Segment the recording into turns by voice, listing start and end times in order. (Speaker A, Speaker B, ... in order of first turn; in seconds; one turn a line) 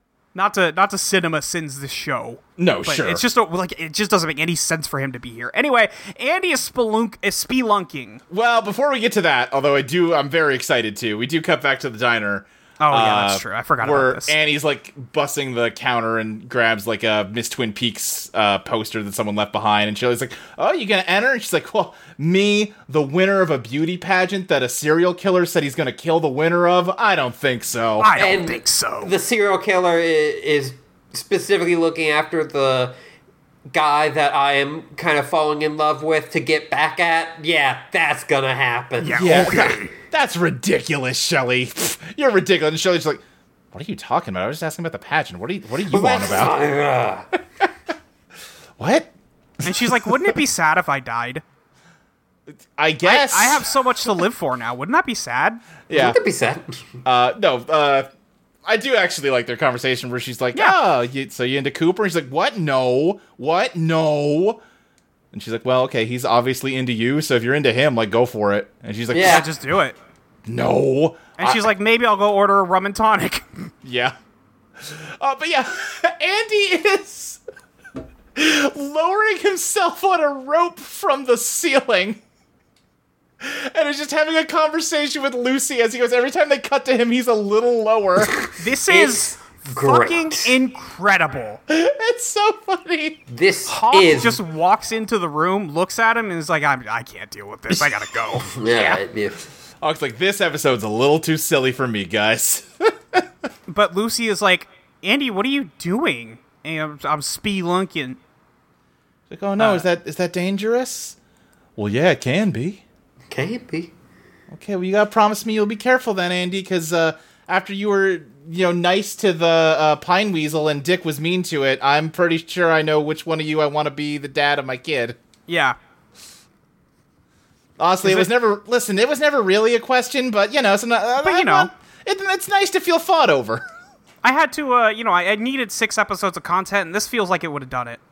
Speaker A: 0.3-8.2
Speaker B: 2.6-3.2
Speaker B: 8.3-28.1
Speaker A: 12.8-14.3
Speaker A: 28.0-29.1
Speaker C: 28.1-33.0
Speaker C: 33.7-39.6
Speaker A: 39.0-39.9
Speaker B: 39.2-46.5
Speaker C: 45.8-47.3
Speaker B: 48.8-50.4
Speaker A: 49.6-51.4
Speaker B: 52.8-53.7
Speaker A: 53.0-55.6
Speaker B: 55.9-56.1
Speaker C: 55.9-56.9
Speaker B: 57.0-58.1
Speaker B: 58.6-64.6
Speaker B: 65.3-69.5
Speaker C: 69.1-69.5
Speaker A: 69.2-70.0
Speaker B: 70.5-71.7
Speaker A: 71.4-73.7
Speaker B: 73.8-74.1
Speaker B: 74.8-77.4
Speaker B: 78.3-82.2
Speaker B: 83.4-88.3
Speaker C: 88.3-90.5
Speaker A: 88.6-91.6
Speaker B: 91.7-93.2
Speaker C: 93.3-94.4
Speaker A: 93.7-98.9
Speaker B: 97.7-98.0
Speaker C: 98.4-99.5
Speaker B: 99.8-103.2
Speaker A: 103.7-108.2
Speaker B: 109.3-111.2
Speaker A: 109.6-109.8
Speaker B: 111.8-112.8
Speaker C: 113.3-113.9
Speaker B: 114.5-125.2
Speaker A: 125.5-125.8
Speaker B: 127.8-133.6
Speaker A: 128.0-128.3
Speaker A: 131.2-131.7
Speaker A: 134.2-138.0